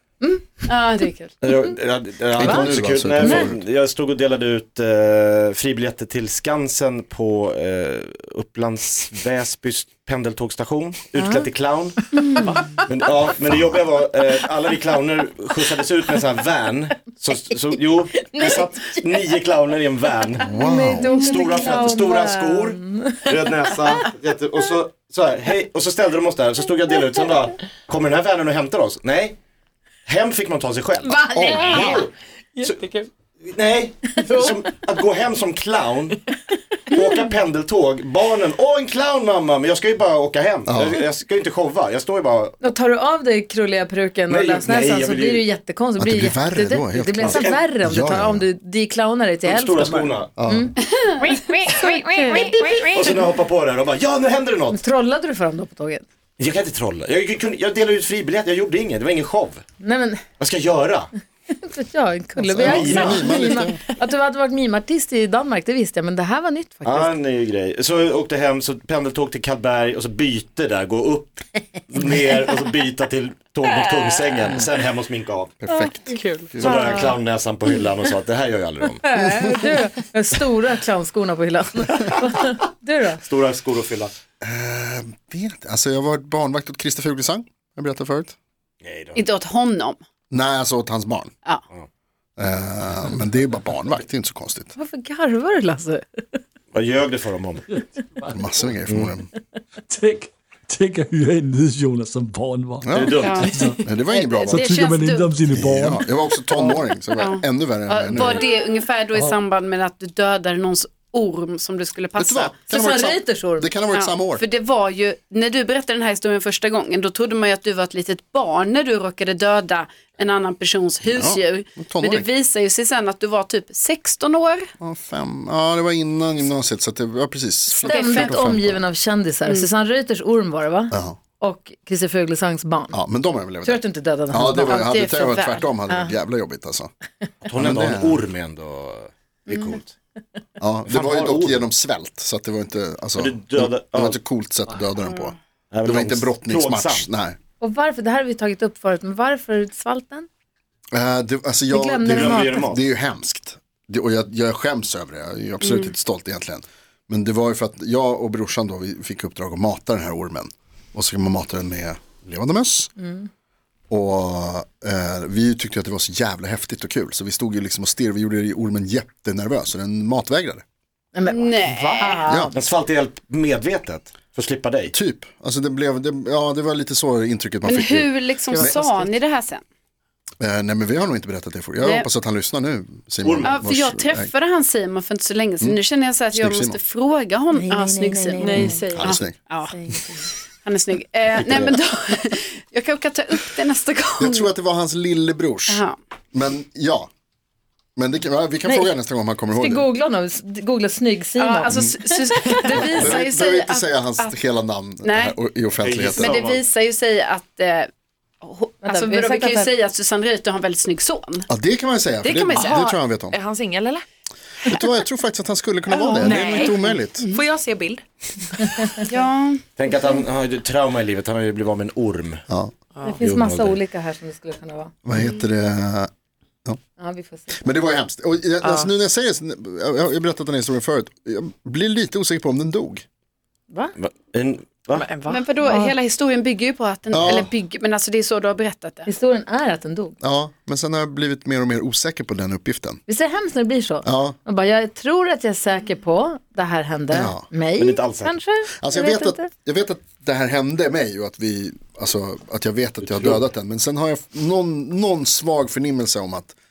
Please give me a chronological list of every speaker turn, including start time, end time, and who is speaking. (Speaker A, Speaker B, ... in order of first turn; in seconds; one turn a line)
Speaker A: 0.2-0.7
Speaker B: 0.7-1.3
Speaker C: 1.4-12.0
Speaker D: 2.3-3.6
Speaker A: 2.4-3.5
Speaker A: 11.2-11.4
Speaker A: 12.1-12.5
Speaker C: 12.8-29.4
Speaker D: 20.4-21.1
Speaker A: 20.5-23.8
Speaker B: 21.1-21.8
Speaker C: 30.1-32.8
Speaker A: 31.2-32.0
Speaker D: 31.4-32.0
Speaker E: 31.5-32.0
Speaker E: 32.5-33.1
Speaker C: 33.4-36.2
Speaker C: 36.9-42.6
Speaker D: 40.7-41.0
Speaker A: 42.6-50.8
Speaker C: 44.3-45.5
Speaker D: 46.0-48.5
Speaker C: 47.2-47.6
Speaker C: 49.4-50.3
Speaker D: 50.4-50.7
Speaker B: 50.9-53.0
Speaker A: 51.7-53.2
Speaker C: 52.9-54.8
Speaker A: 54.7-56.0
Speaker C: 56.4-59.6
Speaker A: 59.8-60.2
Speaker C: 60.4-61.1
Speaker A: 61.5-67.1
Speaker D: 62.4-63.8
Speaker C: 62.6-63.2
Speaker E: 62.9-63.6
Speaker C: 66.8-75.6
Speaker D: 75.6-77.0
Speaker A: 75.7-77.2
Speaker E: 76.1-76.7
Speaker C: 76.6-79.0
Speaker A: 79.0-83.2
Speaker C: 83.2-84.1
Speaker D: 84.4-88.3
Speaker C: 88.8-89.3
Speaker B: 89.1-90.0
Speaker D: 90.3-91.3
Speaker D: 92.4-94.7
Speaker A: 94.7-96.4
Speaker C: 96.7-97.7
Speaker F: 97.7-98.4
Speaker D: 98.3-99.3
Speaker F: 99.9-103.9
Speaker D: 102.8-103.2
Speaker C: 102.9-103.5
Speaker B: 103.2-105.4
Speaker D: 103.8-104.6
Speaker F: 104.5-106.1
Speaker D: 105.5-108.4
Speaker B: 106.5-112.5
Speaker D: 112.2-114.4
Speaker A: 112.7-113.7
Speaker B: 113.9-124.7
Speaker D: 121.0-122.3
Speaker D: 124.8-128.8
Speaker A: 127.7-133.0
Speaker B: 127.8-128.6
Speaker D: 130.9-131.2
Speaker D: 132.9-136.9
Speaker A: 133.6-134.9
Speaker B: 134.7-135.7
Speaker A: 135.9-136.1
Speaker C: 137.4-139.9
Speaker D: 137.5-138.2
Speaker B: 139.5-139.7
Speaker D: 140.6-147.4
Speaker C: 140.8-141.7
Speaker C: 143.2-144.2
Speaker C: 145.7-147.1
Speaker A: 147.6-150.3
Speaker D: 150.9-162.9
Speaker A: 151.7-152.7
Speaker C: 152.0-152.9
Speaker B: 155.6-155.9
Speaker A: 163.0-163.3
Speaker D: 163.9-170.6
Speaker A: 171.1-172.6
Speaker B: 171.3-172.3
Speaker D: 172.2-172.5
Speaker C: 172.5-174.9
Speaker D: 174.9-178.8
Speaker B: 177.6-179.6
Speaker E: 178.5-179.1
Speaker D: 180.4-184.3
Speaker B: 181.8-182.1
Speaker C: 183.2-183.6
Speaker B: 183.4-189.7
Speaker D: 186.3-186.8
Speaker A: 187.5-190.3
Speaker E: 188.4-189.2
Speaker D: 188.5-189.4
Speaker B: 190.6-194.5
Speaker C: 191.3-191.8
Speaker D: 194.2-195.8
Speaker B: 195.7-195.9
Speaker D: 196.3-197.1
Speaker D: 197.9-199.9
Speaker A: 198.6-198.9
Speaker A: 199.5-202.9
Speaker B: 201.4-204.4
Speaker D: 202.8-206.4
Speaker B: 205.0-205.4
Speaker C: 205.8-206.7
Speaker B: 206.2-207.9
Speaker B: 208.4-211.5
Speaker A: 208.8-209.7
Speaker D: 211.5-213.4
Speaker E: 212.2-214.0
Speaker D: 214.7-217.3
Speaker B: 215.9-217.4
Speaker E: 216.2-216.8
Speaker E: 217.3-218.8
Speaker B: 219.1-219.6
Speaker C: 219.8-222.4
Speaker E: 222.9-223.2
Speaker A: 223.0-224.9
Speaker C: 223.2-223.8
Speaker D: 225.0-226.1
Speaker A: 227.0-227.6
Speaker D: 227.5-233.0
Speaker E: 228.6-228.9
Speaker A: 233.7-233.9
Speaker C: 234.0-235.1
Speaker E: 234.9-235.4
Speaker B: 235.2-239.1
Speaker A: 235.6-235.9
Speaker D: 237.1-237.5
Speaker A: 239.1-240.2
Speaker D: 240.2-243.0
Speaker A: 243.1-249.5
Speaker D: 244.0-244.4
Speaker D: 247.1-247.5
Speaker C: 247.8-248.4
Speaker D: 248.8-256.5
Speaker C: 253.0-253.4